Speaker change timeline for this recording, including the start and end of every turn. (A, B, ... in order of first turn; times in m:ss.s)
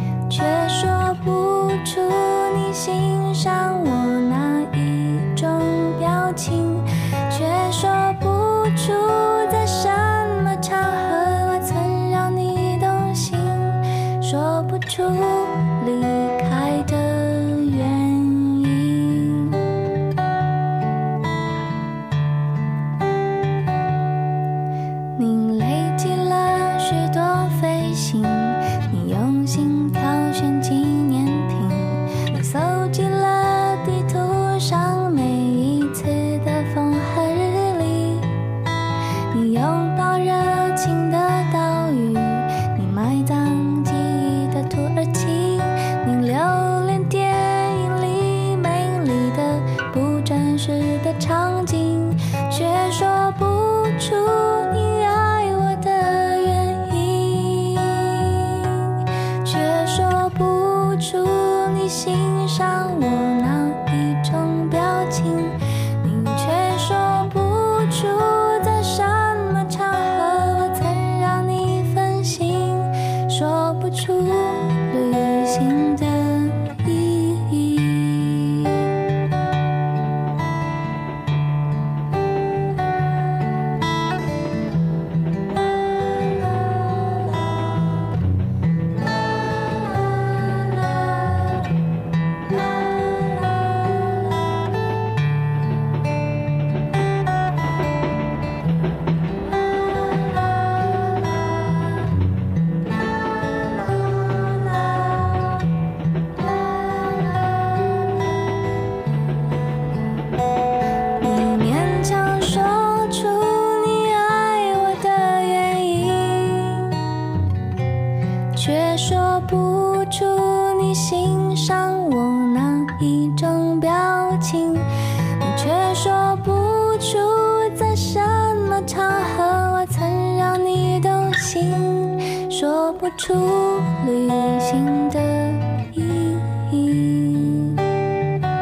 0:00.3-0:19.6 A
0:25.2-0:38.3 A
0:39.3-1:18.9 A
1:39.8-1:40.4 A
1:41.0-1:41.4 A
1:43.6-1:45.7 A
1:46.4-1:47.8 A
1:51.2-1:57.3 A
1:58.5-2:17.8 A